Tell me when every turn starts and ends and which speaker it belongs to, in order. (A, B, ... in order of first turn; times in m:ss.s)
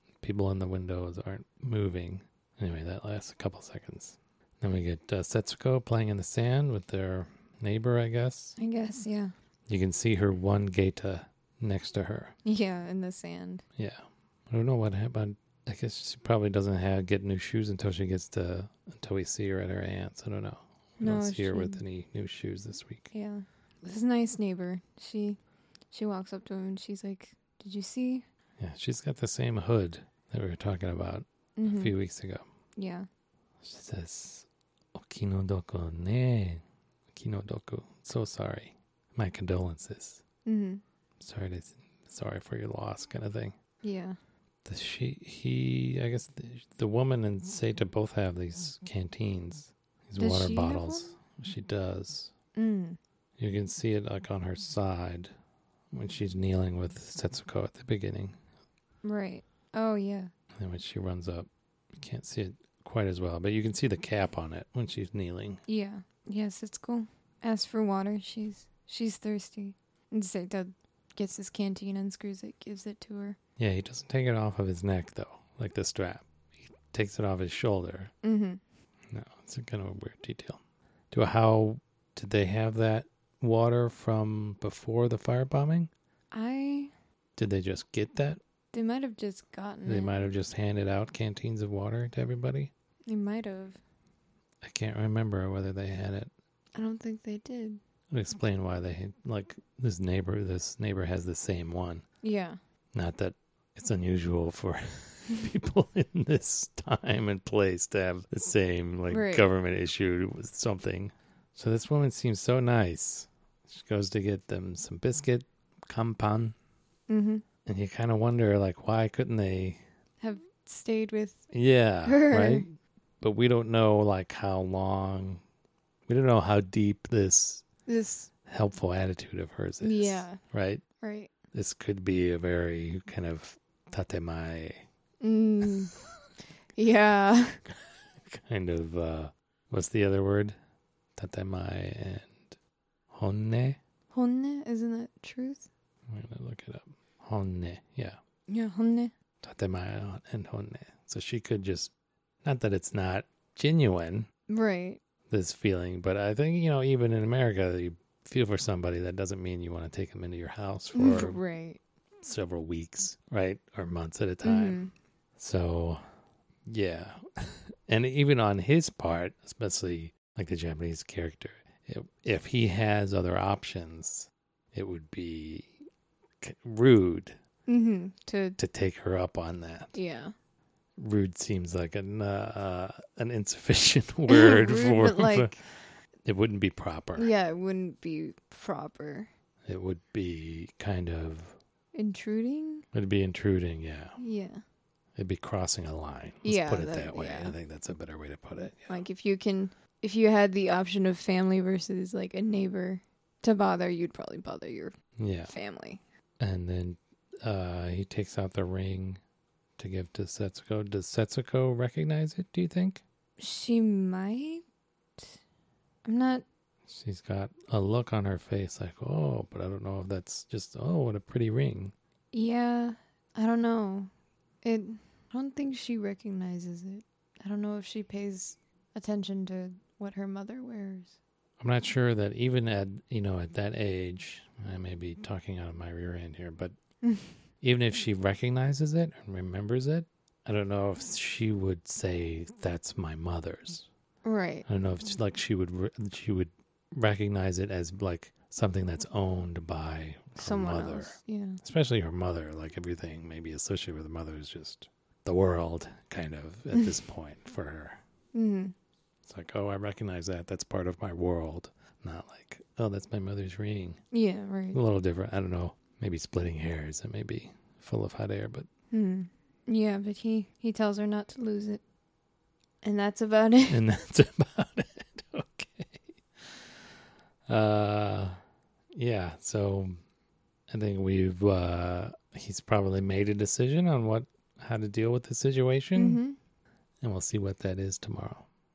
0:00.2-0:08.6 A
0:08.6-0:09.3 B
0:09.7-0:12.4 A
0:12.4-0:13.6 B
0:13.8-0:23.1 A
0:21.0-0:21.8 B
0:23.1-0:25.4 B
0:25.9-0:28.3 B
0:28.6-0:32.4 A
0:31.6-0:31.9 B
0:32.8-0:33.1 B
0:33.6-0:40.2 A
0:40.4-0:40.8 B
0:41.2-0:43.6 A
0:43.8-0:44.2 B
0:44.6-0:52.3 A
0:50.2-0:51.1 B
0:52.6-0:53.0 B
0:53.4-0:55.3 A
0:55.9-0:58.4 A
0:59.0-1:00.3 B
1:00.6-1:05.6 A
1:05.7-1:13.4 B
1:13.6-1:18.1 A
1:18.2-1:18.6 B
1:19.1-1:20.6 A
1:21.1-1:25.9 A
1:26.3-1:26.9 B
1:27.4-1:28.4 A
1:28.7-1:30.2 B
1:29.9-1:32.7 A
1:33.1-1:33.8 B
1:34.6-1:36.3 A
1:36.8-1:37.8 B
1:38.1-1:42.0 A
1:42.2-1:42.6 B
1:42.9-1:56.6 A
1:49.1-1:49.5 B
1:57.1-1:57.4 B
1:57.7-1:59.8 A
2:00.2-2:01.5 B
2:01.5-2:05.4 A
2:02.0-2:02.6 B
2:06.1-2:07.6 A
2:07.9-2:08.3 B
2:08.5-2:10.8 A
2:09.8-2:10.4 B
2:11.0-2:11.3 B
2:11.5-2:14.8 A
2:15.2-2:16.1 B
2:16.8-2:17.6 B
2:17.7-2:20.6 A
2:21.2-2:22.6 A
2:23.1-2:23.8 A
2:24.1-2:25.7 B
2:26.1-2:28.2 A
2:28.5-2:29.1 B
2:29.4-2:31.9 A
2:32.4-2:34.3 A
2:34.5-2:35.0 B
2:35.3-2:41.4 A
2:40.9-2:41.8 B
2:42.2-2:44.8 A
2:44.4-2:44.9 B
2:45.4-2:46.1 A
2:46.7-2:55.8 A
2:56.4-2:57.4 A
2:57.7-2:58.6 B
2:58.6-3:00.0 A
2:59.9-3:00.3 B
3:01.0-3:07.3 A
3:04.3-3:05.6 B
3:07.2-3:09.3 B
3:09.7-3:11.6 A
3:11.9-3:12.9 B
3:12.9-3:14.2 A
3:14.2-3:14.6 B
3:15.2-3:19.0 A
3:16.4-3:17.6 B
3:18.9-3:25.0 B
3:25.2-3:25.5 A
3:25.5-3:26.0 B
3:26.4-3:29.2 A
3:29.8-3:33.0 A
3:33.4-3:34.6 B
3:36.0-3:36.4 B
3:36.9-3:41.9 A
3:42.3-3:44.1 B
3:44.6-3:51.2 B
3:51.6-3:56.7 A
3:57.0-3:57.4 B
3:57.6-4:03.9 A
4:04.2-4:04.6 B
4:04.7-4:18.0 A
4:10.4-4:11.6 B
4:18.3-4:18.8 B
4:19.2-4:24.0 A
4:24.1-4:24.8 B
4:24.7-4:28.7 A
4:28.9-4:31.8 B
4:32.8-4:33.8 B
4:33.7-4:36.7 A
4:37.5-4:38.4 A
4:38.9-4:40.0 A
4:40.7-4:46.2 A
4:46.0-4:46.4 B
4:47.0-4:48.5 A